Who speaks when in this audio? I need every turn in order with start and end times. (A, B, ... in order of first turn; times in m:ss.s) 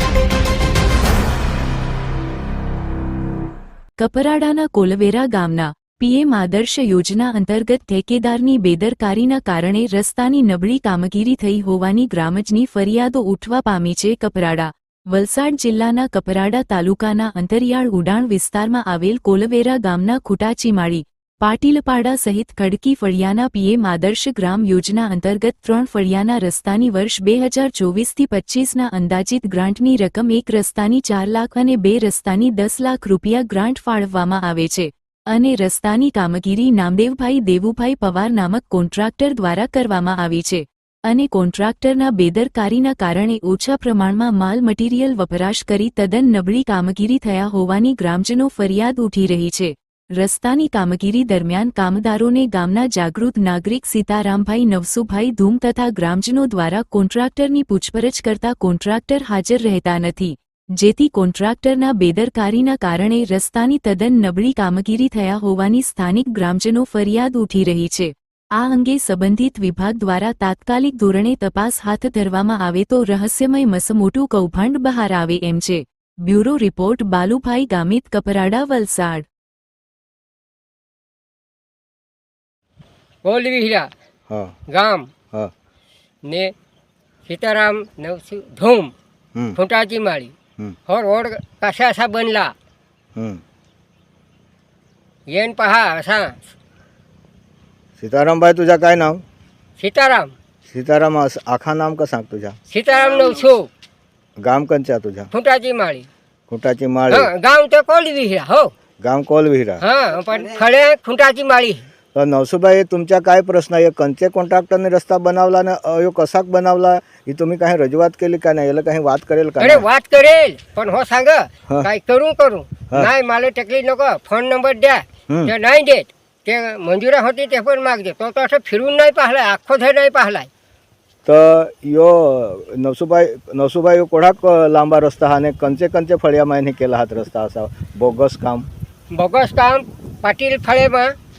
0:04.0-1:19.3 A
1:23.2-1:23.9 B
1:24.3-1:24.5 C
1:24.7-1:25.1 B
1:26.2-1:26.5 B
1:27.2-1:28.9 B
1:29.6-1:30.3 B
1:30.9-1:32.5 B
1:33.2-1:33.4 C
1:35.3-1:36.5 B
1:38.0-1:39.2 C
1:39.8-1:40.3 B
1:40.7-1:42.6 C
1:42.7-1:43.7 B
1:44.4-1:45.3 C
1:45.3-1:46.1 B
1:46.5-1:47.3 C
1:47.1-1:48.7 B
1:49.0-1:49.8 C
1:49.8-1:51.8 B
1:52.1-1:59.8 C
1:59.6-2:10.5 B
2:11.2-2:18.6 C
2:19.1-2:21.1 B